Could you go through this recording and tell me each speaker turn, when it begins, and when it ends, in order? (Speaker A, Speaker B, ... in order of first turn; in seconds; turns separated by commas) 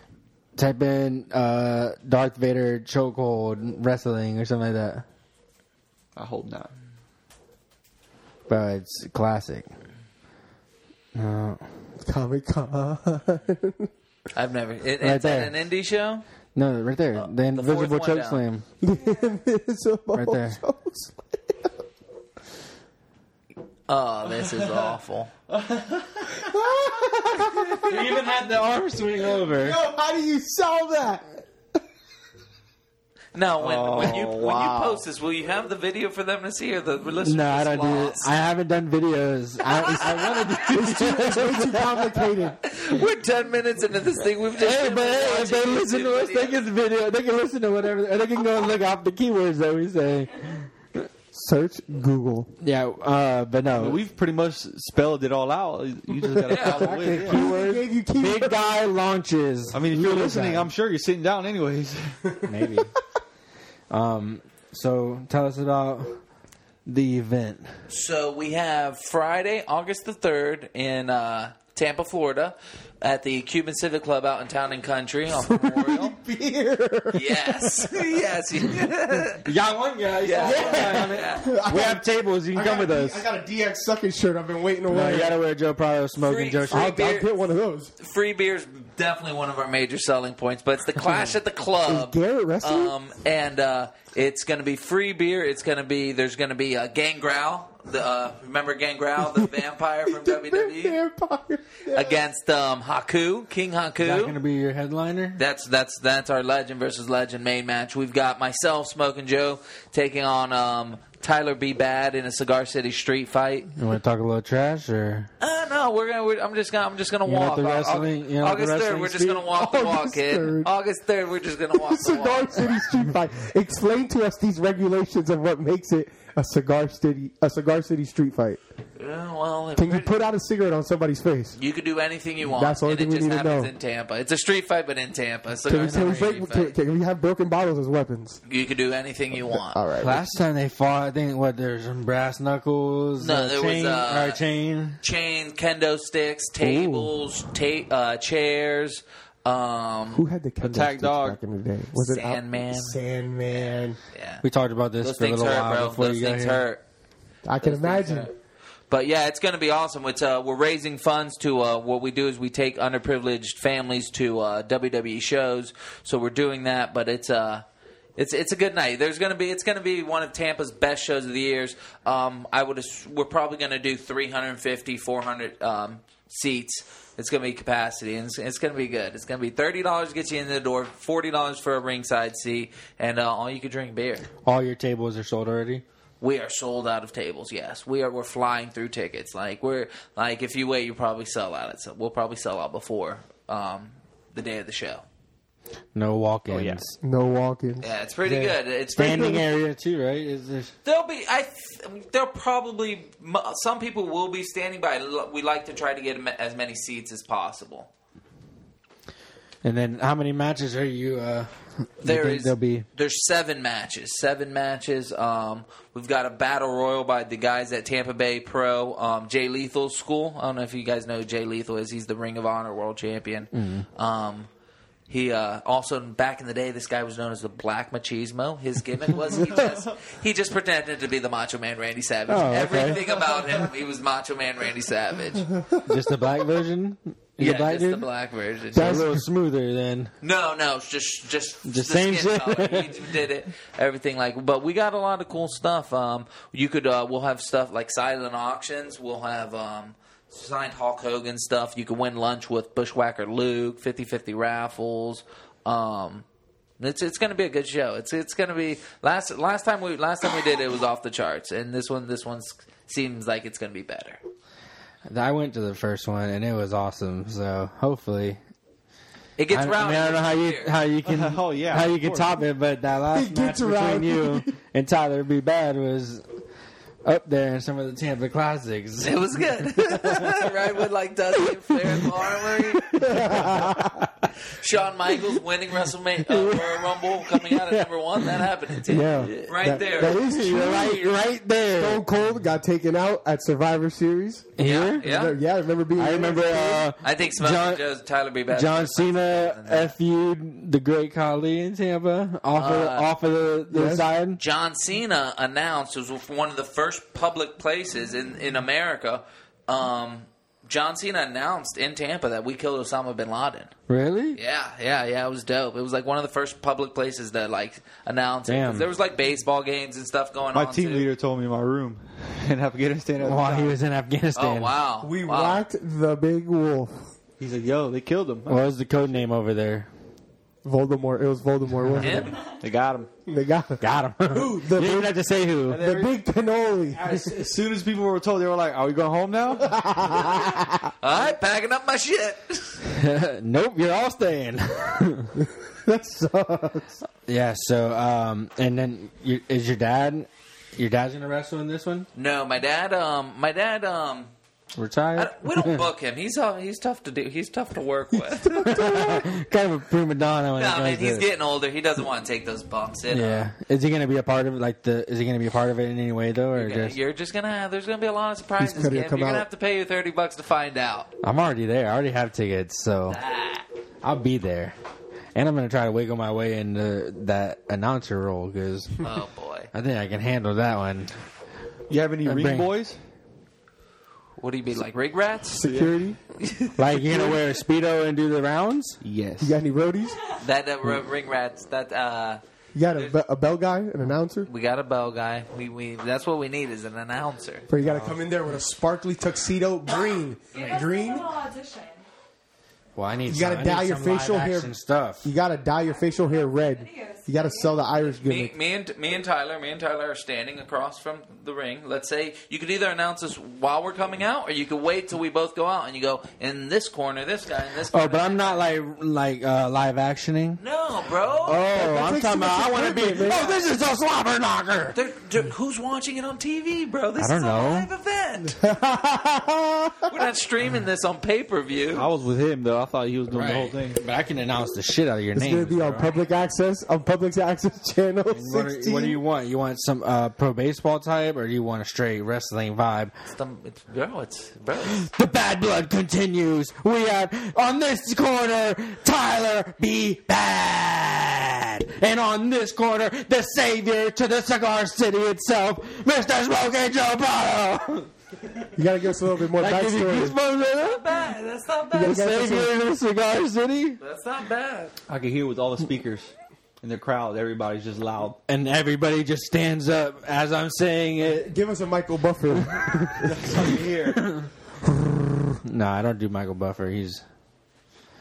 Speaker A: 0.6-5.0, Speaker B: 6.2-6.7, Speaker A: 8.5-9.7, Speaker A: 11.2-11.7, Speaker C: 12.0-13.9, Speaker D: 14.3-16.2, Speaker A: 15.0-15.5, Speaker A: 16.6-18.6, Speaker D: 17.2-18.4, Speaker C: 18.8-21.7, Speaker E: 18.9-19.4, Speaker A: 20.1-20.6, Speaker D: 23.9-25.3, Speaker B: 24.3-24.9, Speaker B: 25.5-26.4, Speaker C: 26.4-28.3, Speaker A: 27.8-29.8, Speaker C: 29.6-31.4, Speaker D: 33.4-38.3, Speaker B: 33.6-35.0, Speaker A: 37.2-42.6, Speaker C: 40.0-42.6, Speaker D: 42.6-46.6, Speaker A: 44.6-51.0, Speaker C: 51.3-52.5, Speaker A: 52.6-54.0, Speaker B: 53.7-57.5, Speaker D: 56.5-57.0, Speaker C: 56.5-58.8, Speaker A: 57.0-60.7, Speaker B: 59.7-62.4, Speaker A: 62.5-62.9, Speaker A: 63.9-66.2, Speaker A: 66.9-67.7, Speaker D: 67.9-76.2, Speaker C: 75.3-78.1, Speaker D: 77.1-79.5, Speaker A: 79.4-83.2, Speaker D: 80.2-81.5, Speaker C: 80.4-85.4, Speaker A: 84.9-87.0, Speaker D: 86.2-87.3, Speaker C: 86.7-87.9, Speaker D: 88.0-101.0, Speaker C: 91.8-92.9, Speaker C: 99.2-99.5, Speaker C: 100.1-102.2, Speaker D: 101.9-104.4, Speaker A: 104.0-105.4, Speaker D: 105.4-113.7, Speaker A: 113.8-115.3, Speaker D: 115.4-122.7, Speaker A: 117.2-119.5, Speaker C: 119.5-120.7, Speaker C: 121.8-128.6, Speaker D: 129.0-130.1, Speaker C: 129.8-131.6, Speaker D: 131.6-136.7, Speaker C: 132.5-133.7, Speaker C: 135.7-138.4, Speaker D: 138.5-139.8, Speaker C: 139.4-140.2, Speaker A: 140.0-145.0, Speaker D: 143.2-144.4, Speaker D: 145.0-150.2, Speaker C: 146.6-147.0, Speaker C: 150.1-154.0, Speaker B: 150.6-151.4, Speaker D: 152.0-153.0, Speaker D: 153.5-154.4, Speaker A: 154.4-156.6, Speaker D: 155.0-156.8, Speaker C: 157.4-158.3, Speaker D: 157.6-158.3, Speaker D: 158.9-167.7, Speaker D: 168.2-184.3, Speaker A: 184.4-185.8, Speaker D: 186.2-195.0, Speaker A: 195.9-197.0, Speaker B: 196.5-196.8, Speaker C: 197.0-199.4, Speaker D: 197.8-199.4, Speaker A: 199.0-200.7, Speaker D: 200.8-207.9, Speaker A: 209.6-212.9, Speaker D: 212.0-224.5, Speaker A: 223.5-223.8, Speaker D: 225.1-235.5, Speaker B: 229.4-229.9, Speaker A: 232.3-233.0, Speaker A: 235.9-238.1, Speaker D: 237.4-239.1, Speaker A: 238.7-240.1, Speaker C: 238.7-239.2, Speaker D: 240.2-256.3, Speaker A: 241.7-242.9, Speaker D: 256.8-264.2, Speaker A: 265.1-268.4, Speaker D: 269.4-270.7, Speaker A: 269.5-276.2, Speaker B: 271.1-272.4, Speaker C: 273.1-274.5, Speaker A: 277.0-280.5, Speaker D: 279.0-283.0, Speaker A: 281.6-284.1, Speaker C: 283.0-284.1, Speaker D: 284.5-290.2, Speaker A: 286.3-292.0, Speaker C: 288.9-291.0, Speaker C: 291.8-296.9, Speaker A: 294.6-295.0, Speaker D: 294.6-295.4, Speaker A: 295.9-297.8, Speaker D: 297.0-299.9, Speaker A: 298.5-304.4, Speaker D: 302.6-303.1, Speaker C: 303.7-304.1, Speaker D: 304.4-313.7, Speaker A: 313.9-314.4, Speaker D: 314.4-321.1, Speaker A: 318.5-318.9, Speaker B: 320.5-323.8, Speaker A: 323.2-324.8, Speaker D: 324.4-325.6, Speaker C: 325.0-327.1, Speaker B: 327.4-328.6, Speaker A: 328.5-329.9, Speaker C: 330.6-332.4, Speaker D: 332.0-332.4, Speaker B: 332.6-333.1, Speaker C: 333.3-335.1, Speaker A: 333.8-335.9, Speaker B: 335.7-336.2, Speaker C: 335.8-337.4, Speaker B: 337.0-339.7, Speaker A: 337.1-337.4, Speaker C: 339.6-340.9, Speaker D: 341.0-342.8, Speaker A: 342.9-345.3, Speaker C: 345.9-347.0, Speaker A: 347.3-352.1, Speaker D: 352.1-354.3, Speaker A: 354.8-355.9, Speaker D: 355.2-358.7, Speaker C: 358.1-359.3, Speaker A: 358.6-361.3, Speaker D: 360.6-363.5, Speaker A: 363.1-367.0, Speaker D: 366.6-371.1, Speaker C: 368.6-369.5, Speaker A: 371.2-373.2, Speaker D: 373.1-373.7, Speaker A: 374.0-374.8, Speaker A: 375.4-379.0, Speaker D: 379.0-379.7, Speaker A: 379.7-381.1, Speaker B: 381.9-383.0, Speaker A: 382.2-382.7, Speaker D: 384.4-385.7, Speaker C: 385.5-386.2, Speaker B: 385.6-386.0, Speaker D: 386.4-387.4, Speaker A: 386.8-389.0, Speaker B: 389.0-389.6, Speaker C: 389.4-390.2, Speaker D: 390.4-392.4, Speaker C: 392.8-394.5, Speaker D: 394.5-397.7, Speaker C: 397.7-401.3, Speaker A: 397.8-398.2, Speaker E: 400.5-402.0, Speaker A: 403.0-405.3, Speaker C: 403.3-408.5, Speaker E: 405.9-408.0, Speaker D: 408.2-418.7, Speaker A: 417.9-420.6, Speaker D: 420.6-421.6, Speaker A: 421.4-425.0, Speaker C: 421.6-423.6, Speaker D: 424.9-428.6, Speaker A: 427.2-427.9, Speaker C: 428.6-430.1, Speaker D: 430.1-432.1, Speaker B: 431.9-434.0, Speaker A: 433.3-436.2, Speaker C: 435.3-439.2, Speaker A: 438.3-443.1, Speaker D: 443.3-445.1, Speaker A: 444.9-458.1, Speaker C: 458.8-460.4, Speaker A: 459.5-461.0, Speaker D: 460.8-462.2, Speaker C: 461.9-462.7, Speaker A: 462.0-464.0, Speaker D: 464.0-464.9, Speaker B: 465.1-468.4, Speaker A: 468.5-471.6, Speaker C: 471.4-473.3, Speaker B: 473.2-474.3, Speaker C: 475.0-475.4, Speaker A: 475.6-477.2